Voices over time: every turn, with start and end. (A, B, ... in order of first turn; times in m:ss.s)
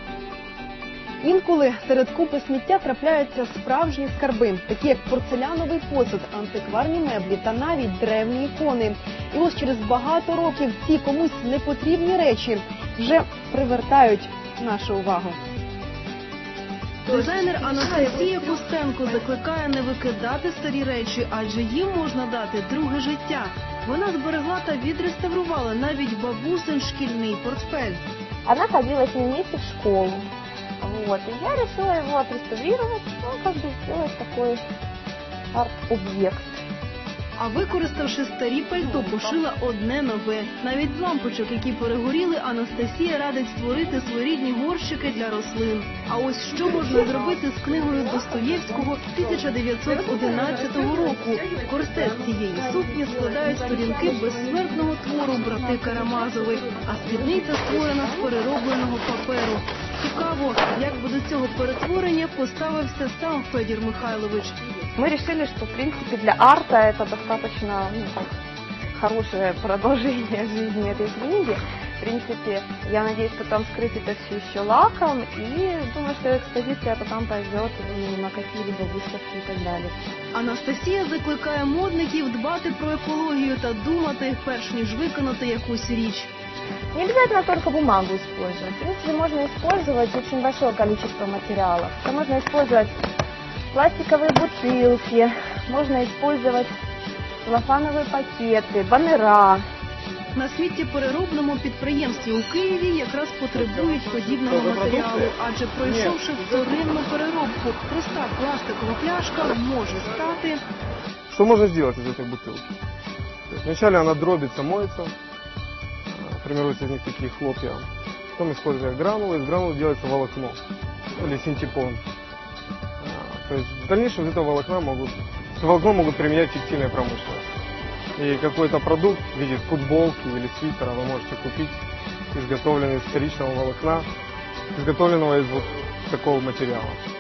0:01.2-0:15.4 A
0:17.1-0:18.6 B
0:17.1-0:28.0 A
0:28.5-0:30.3 B
0:30.8-0:34.6 B
0:35.5-0:36.6 B
0:37.4-1:04.7 A
0:38.8-0:39.4 B
0:53.9-0:54.4 B
0:56.7-0:58.2 B
1:05.0-1:08.3 B
1:08.9-1:20.0 B
1:20.3-1:26.3 A
1:26.9-1:32.9 B
1:33.7-1:36.7 B
1:37.4-1:39.6 B
1:40.3-1:50.6 A
1:43.6-1:46.4 C
1:51.3-1:52.7 C
1:53.5-1:55.1 C
1:56.1-2:00.6 C
2:01.2-2:02.0 C
2:03.0-2:07.5 C
2:08.2-2:11.8 C
2:12.3-2:14.1 C
2:14.7-2:17.0 C